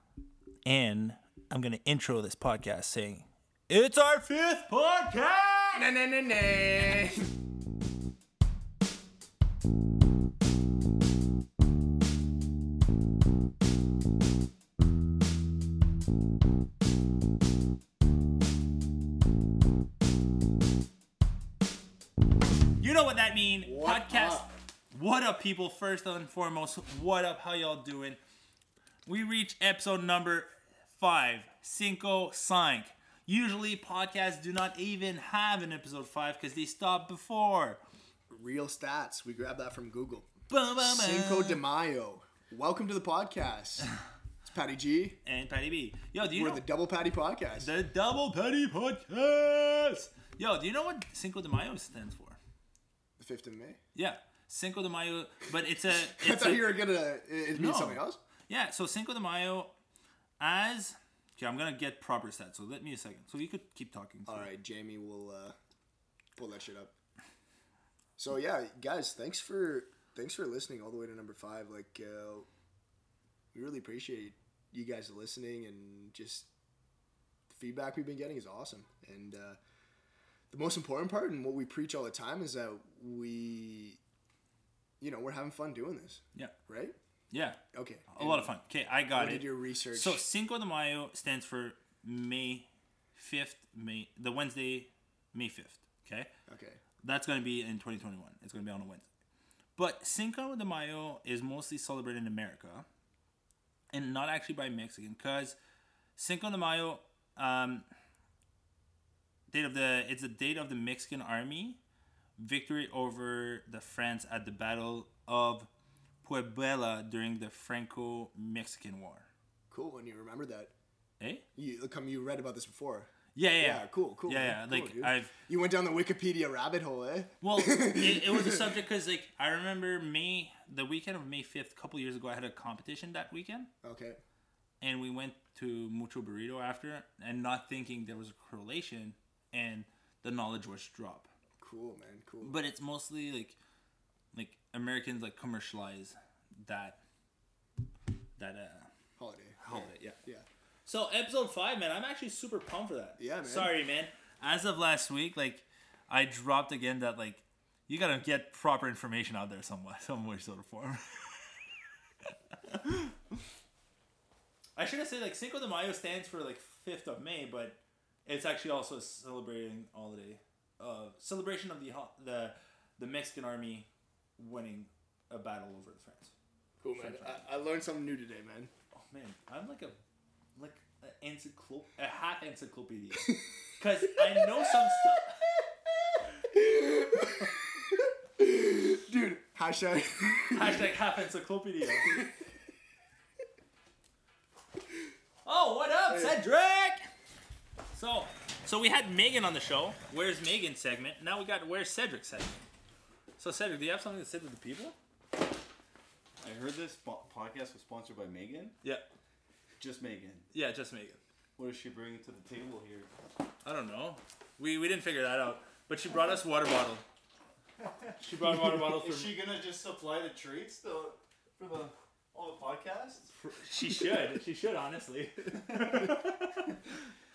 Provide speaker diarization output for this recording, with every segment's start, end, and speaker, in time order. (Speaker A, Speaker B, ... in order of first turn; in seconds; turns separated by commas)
Speaker A: 0.6-5.9, Speaker B: 5.7-7.2, Speaker A: 22.8-28.2, Speaker B: 23.6-24.5, Speaker A: 29.1-37.8, Speaker B: 38.3-43.9, Speaker A: 40.5-41.6, Speaker B: 44.4-45.2, Speaker A: 45.2-46.6, Speaker B: 46.3-47.7, Speaker A: 47.6-52.4, Speaker B: 53.2-53.8, Speaker A: 53.9-56.7, Speaker B: 55.9-58.2, Speaker A: 57.5-59.7, Speaker A: 60.4-64.5, Speaker B: 64.3-65.5, Speaker B: 66.3-66.9, Speaker B: 68.2-72.5, Speaker B: 73.5-76.5, Speaker B: 77.5-79.6, Speaker B: 80.5-84.0, Speaker B: 85.0-87.0, Speaker A: 87.3-96.3, Speaker B: 87.7-88.5, Speaker B: 89.1-90.2, Speaker B: 96.5-96.8, Speaker A: 97.0-99.0, Speaker A: 99.8-102.9, Speaker A: 103.9-105.6, Speaker A: 106.2-107.8, Speaker A: 109.5-111.8, Speaker A: 112.4-115.7, Speaker A: 116.2-119.3, Speaker B: 119.7-120.7, Speaker A: 121.2-121.4, Speaker B: 121.5-128.7, Speaker A: 123.3-125.3, Speaker A: 127.4-133.7, Speaker B: 133.8-134.2, Speaker A: 134.8-141.3, Speaker B: 141.6-142.6, Speaker A: 142.4-143.6, Speaker A: 144.3-147.0, Speaker A: 148.4-148.9, Speaker B: 149.2-150.4, Speaker A: 149.6-150.2, Speaker A: 150.8-161.6, Speaker B: 153.2-153.7, Speaker A: 162.6-163.2, Speaker A: 164.8-176.3, Speaker B: 176.8-178.7, Speaker A: 176.9-177.4, Speaker A: 178.9-180.0, Speaker A: 180.6-185.4, Speaker B: 186.4-190.9, Speaker A: 190.5-192.2, Speaker A: 195.4-197.1, Speaker A: 197.9-202.6, Speaker A: 203.4-204.9, Speaker C: 206.4-208.8, Speaker A: 208.8-209.1, Speaker C: 209.8-210.5, Speaker A: 210.5-211.2, Speaker C: 211.6-213.1, Speaker A: 213.6-217.0, Speaker C: 217.8-223.3, Speaker A: 218.2-219.3, Speaker A: 223.3-226.7, Speaker C: 225.7-226.1